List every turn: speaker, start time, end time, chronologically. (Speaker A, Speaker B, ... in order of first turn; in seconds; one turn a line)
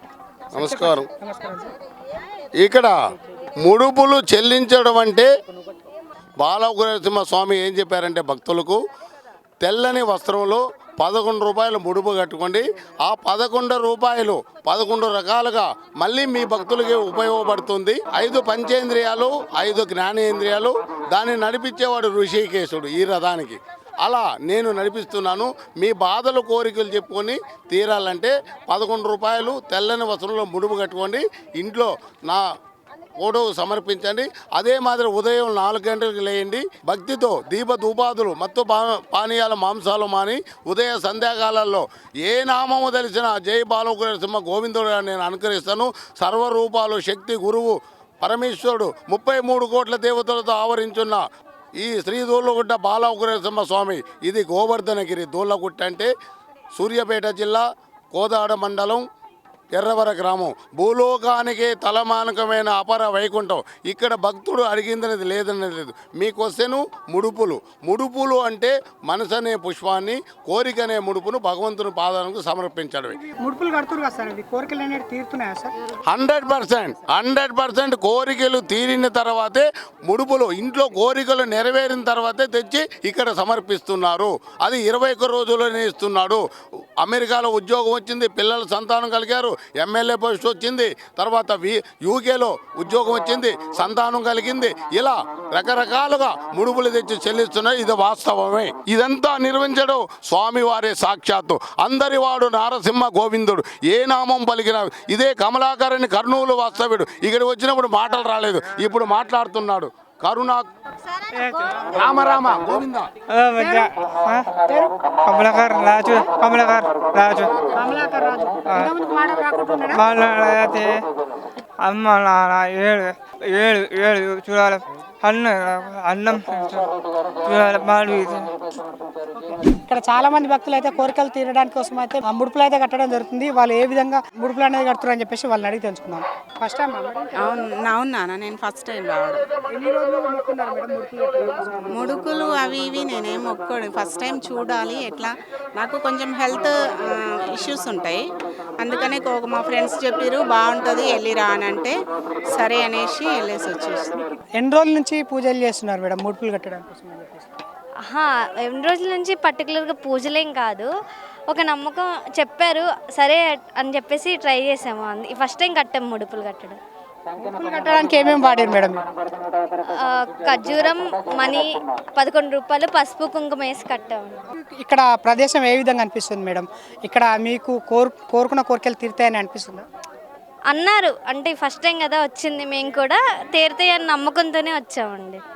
Speaker A: 0.5-1.7
Speaker B: 0.6-1.1
Speaker B: 2.6-2.9
Speaker B: 3.6-5.3
Speaker B: 6.4-8.8
Speaker B: 9.6-32.5
Speaker B: 33.2-51.2
Speaker B: 51.8-56.1
Speaker B: 56.8-59.0
Speaker B: 59.7-73.2
Speaker A: 73.2-75.7
Speaker B: 76.1-86.4
Speaker B: 87.0-110.7
Speaker A: 111.3-111.9
Speaker B: 111.9-113.1
Speaker C: 113.3-114.5
Speaker A: 113.6-113.9
Speaker A: 114.7-114.9
Speaker C: 115.2-117.7
Speaker A: 117.7-120.1
Speaker C: 119.9-121.0
Speaker C: 121.8-126.9
Speaker C: 127.5-128.5
Speaker A: 129.5-137.7
Speaker D: 137.4-139.4
Speaker A: 139.7-142.2
Speaker D: 141.9-148.3
Speaker D: 148.8-152.0
Speaker D: 152.5-154.2
Speaker A: 154.6-157.5
Speaker E: 158.1-160.9
Speaker E: 161.5-166.8
Speaker A: 167.4-169.0
Speaker E: 170.0-174.4
Speaker A: 174.6-179.9
Speaker E: 180.7-185.4